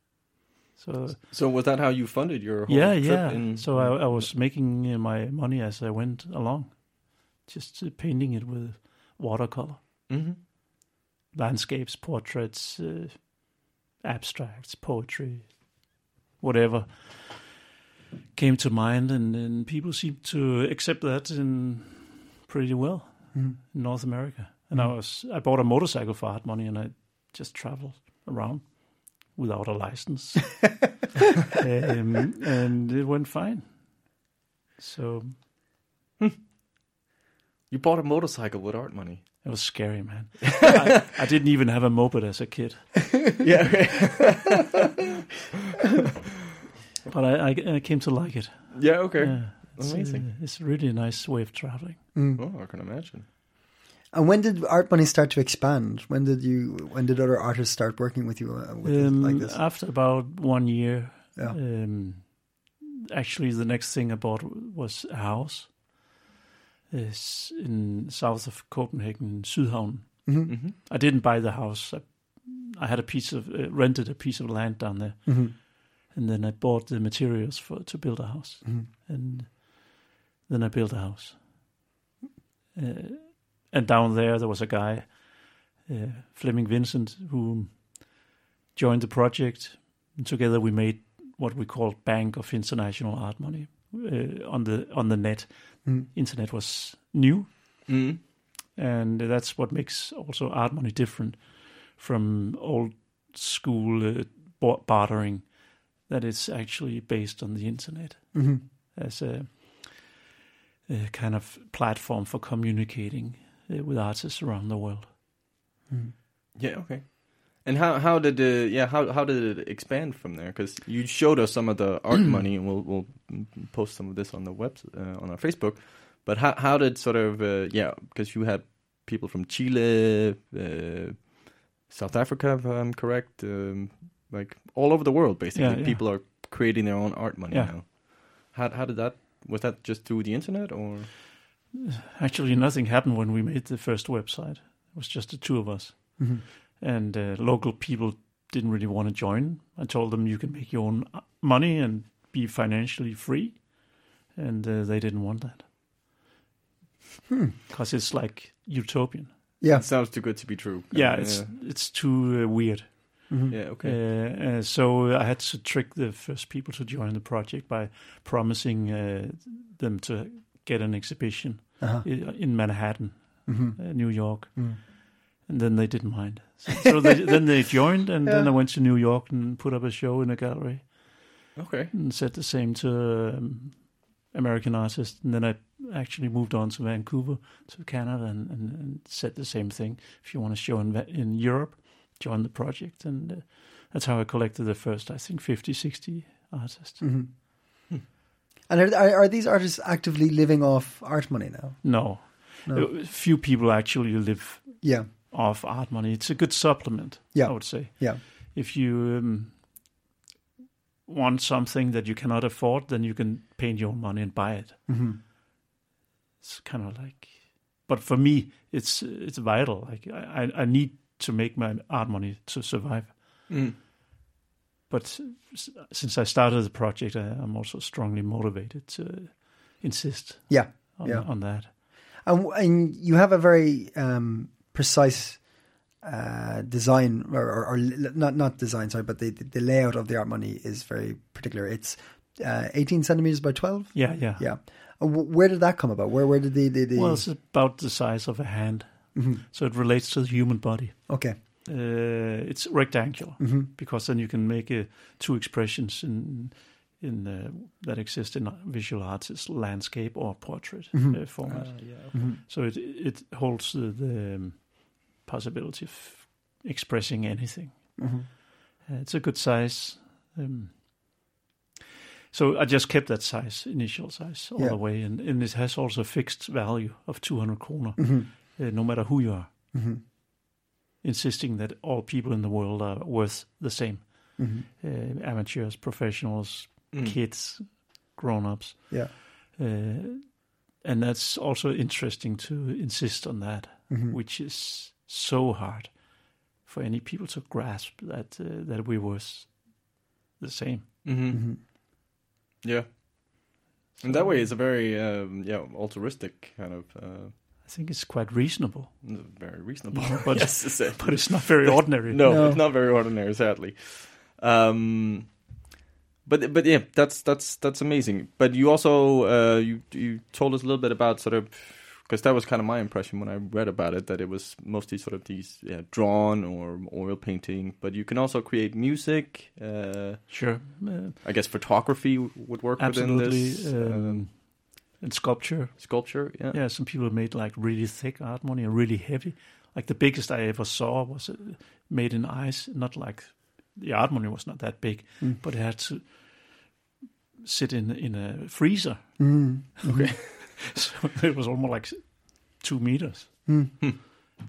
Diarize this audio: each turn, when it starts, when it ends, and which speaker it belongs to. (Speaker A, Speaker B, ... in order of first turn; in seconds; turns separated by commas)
Speaker A: 0.8-1.2, Speaker B: 1.3-4.3, Speaker A: 2.7-9.8, Speaker B: 10.1-10.4, Speaker A: 11.3-13.3, Speaker A: 14.0-15.5, Speaker A: 16.4-17.4, Speaker A: 18.3-30.8, Speaker A: 31.4-33.7, Speaker A: 34.8-35.4, Speaker B: 37.7-39.4, Speaker A: 39.4-42.9, Speaker B: 40.4-41.1, Speaker B: 43.3-45.2, Speaker A: 47.1-52.0, Speaker B: 48.7-50.3, Speaker C: 52.1-52.4, Speaker B: 52.3-53.2, Speaker C: 54.1-59.6, Speaker A: 58.8-62.3, Speaker A: 63.1-65.8, Speaker A: 66.9-81.4, Speaker C: 70.2-70.5, Speaker B: 70.5-70.8, Speaker C: 75.2-75.5, Speaker A: 82.7-85.1, Speaker A: 85.9-87.9, Speaker A: 88.7-97.5, Speaker B: 97.9-98.2, Speaker A: 98.8-101.4, Speaker A: 101.9-105.5, Speaker A: 106.1-110.1, Speaker C: 108.3-108.6, Speaker A: 110.9-115.1, Speaker B: 116.5-141.1, Speaker A: 135.5-136.1, Speaker A: 137.5-137.8, Speaker A: 141.7-153.6, Speaker A: 154.3-155.7, Speaker A: 157.7-159.3, Speaker B: 159.7-161.5, Speaker A: 160.9-174.8, Speaker C: 163.3-163.6, Speaker B: 163.5-164.0, Speaker C: 171.8-172.1, Speaker C: 173.5-173.8, Speaker A: 175.4-180.9, Speaker B: 181.6-181.9, Speaker A: 181.9-197.1, Speaker C: 197.0-197.3, Speaker C: 198.7-202.9, Speaker A: 201.8-209.6, Speaker C: 204.8-205.1, Speaker C: 207.3-208.2, Speaker A: 211.1-214.8, Speaker C: 214.9-215.2, Speaker A: 216.4-223.1, Speaker B: 223.5-223.8, Speaker A: 224.9-231.7, Speaker C: 230.5-231.3, Speaker C: 232.2-235.4, Speaker C: 236.0-247.2, Speaker A: 243.9-244.4, Speaker A: 246.9-251.0, Speaker C: 249.1-249.4, Speaker C: 251.1-251.3, Speaker A: 251.6-268.1, Speaker C: 253.4-253.7, Speaker C: 260.9-261.2, Speaker B: 261.4-262.1, Speaker C: 268.0-268.2, Speaker A: 268.9-270.8, Speaker A: 272.3-279.5, Speaker C: 278.0-278.3, Speaker C: 279.7-280.0, Speaker A: 281.0-295.9, Speaker C: 284.4-284.6, Speaker C: 293.9-294.2, Speaker A: 296.6-299.7, Speaker A: 300.4-300.9, Speaker B: 301.0-301.4, Speaker C: 301.3-301.6, Speaker B: 302.6-303.4, Speaker A: 304.0-304.5, Speaker B: 304.0-307.3, Speaker A: 307.6-308.9, Speaker B: 309.0-315.3, Speaker A: 309.9-312.5, Speaker C: 312.2-312.6, Speaker B: 316.2-330.3, Speaker A: 330.3-331.2, Speaker B: 331.2-334.2, Speaker A: 332.8-346.2, Speaker B: 335.8-336.6, Speaker A: 347.4-353.5, Speaker C: 349.2-350.1, Speaker B: 349.9-350.7, Speaker C: 353.5-353.7